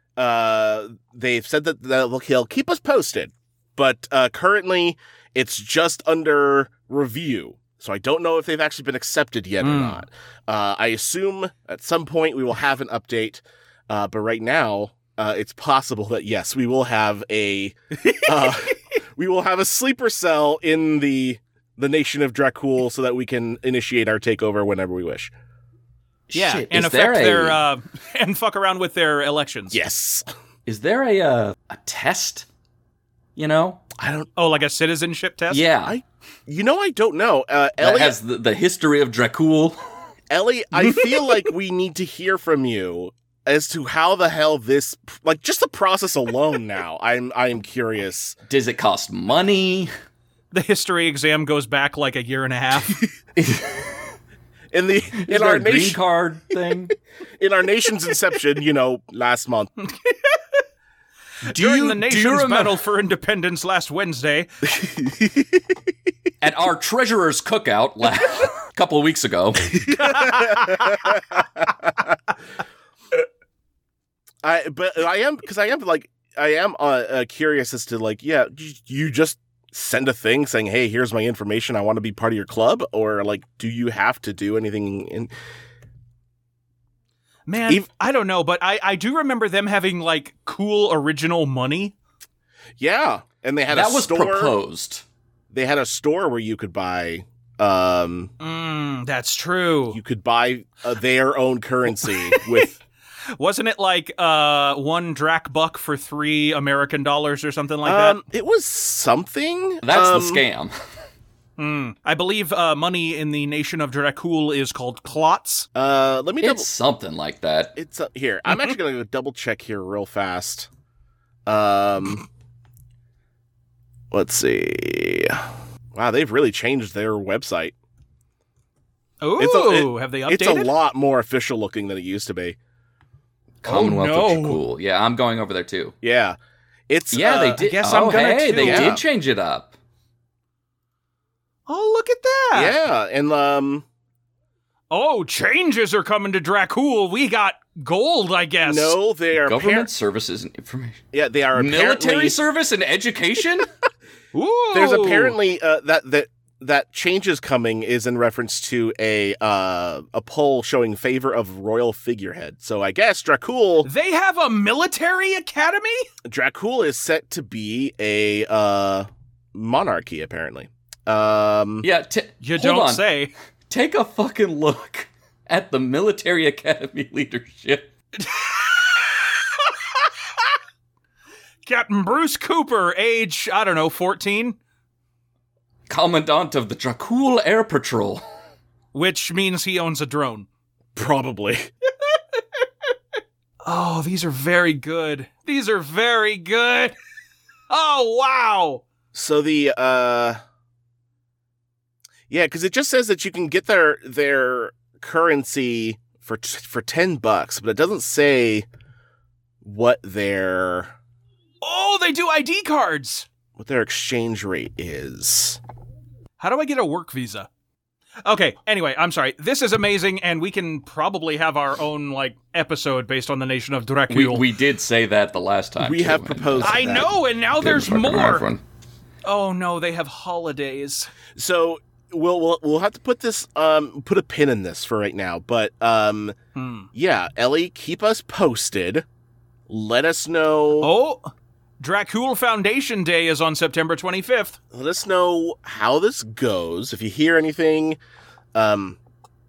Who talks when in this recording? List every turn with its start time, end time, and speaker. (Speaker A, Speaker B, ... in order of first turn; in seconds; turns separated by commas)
Speaker A: 0.2-25.3, Speaker B: 9.6-10.0, Speaker B: 18.0-18.3, Speaker C: 26.3-27.6, Speaker B: 26.3-29.8, Speaker A: 29.7-30.2, Speaker C: 30.6-32.5, Speaker C: 33.4-33.8, Speaker A: 34.0-34.3, Speaker B: 34.4-35.6, Speaker C: 35.5-36.0, Speaker A: 35.8-38.2, Speaker C: 37.8-39.8, Speaker A: 40.3-48.4, Speaker C: 48.5-49.9, Speaker B: 50.5-53.0, Speaker C: 53.4-53.9, Speaker A: 54.7-56.0, Speaker C: 55.2-56.9, Speaker A: 57.4-59.7, Speaker B: 59.9-60.6, Speaker C: 61.5-62.8, Speaker B: 61.5-64.5, Speaker A: 64.7-65.7, Speaker C: 66.4-69.8, Speaker A: 69.7-72.2, Speaker B: 70.0-71.2, Speaker A: 74.4-85.3, Speaker B: 87.5-91.9, Speaker A: 92.8-94.5, Speaker C: 93.7-95.0, Speaker A: 95.5-98.3, Speaker B: 98.4-100.0, Speaker A: 99.9-102.8, Speaker B: 102.0-102.7, Speaker B: 103.3-108.2, Speaker A: 107.8-110.4, Speaker C: 109.8-110.7, Speaker B: 111.6-115.7, Speaker A: 115.7-116.7, Speaker C: 116.4-117.8, Speaker A: 117.8-120.7, Speaker A: 121.5-122.2, Speaker A: 124.1-127.7, Speaker B: 129.2-130.7, Speaker A: 129.4-132.6, Speaker C: 133.6-135.9, Speaker B: 133.6-134.6, Speaker A: 136.0-136.4, Speaker A: 136.9-137.6, Speaker C: 137.1-139.7, Speaker B: 137.6-139.0, Speaker A: 138.6-139.0, Speaker B: 141.7-142.8, Speaker A: 142.5-143.8, Speaker B: 144.9-149.0, Speaker A: 148.6-149.9, Speaker C: 149.3-153.7, Speaker A: 151.1-152.4, Speaker B: 154.3-155.3, Speaker A: 154.7-163.9, Speaker B: 163.8-166.1, Speaker A: 166.2-171.8, Speaker C: 171.8-173.0, Speaker B: 172.4-173.3, Speaker C: 173.7-177.9, Speaker B: 178.2-180.4, Speaker B: 181.6-184.6, Speaker C: 185.9-188.2, Speaker B: 188.9-190.5, Speaker A: 190.9-191.7, Speaker B: 193.6-196.9, Speaker B: 197.7-198.8, Speaker A: 199.1-200.4, Speaker A: 202.3-208.7, Speaker A: 209.6-210.9, Speaker B: 211.6-213.3, Speaker A: 213.6-215.6, Speaker B: 216.4-217.5, Speaker B: 218.2-224.4, Speaker C: 224.1-227.0, Speaker A: 225.8-227.1, Speaker B: 226.6-228.4, Speaker C: 227.6-228.6, Speaker B: 229.2-231.1, Speaker A: 231.3-236.4, Speaker B: 236.6-236.9, Speaker A: 236.9-239.0, Speaker A: 239.7-240.9, Speaker B: 240.8-244.6, Speaker A: 244.7-248.0, Speaker A: 248.5-249.0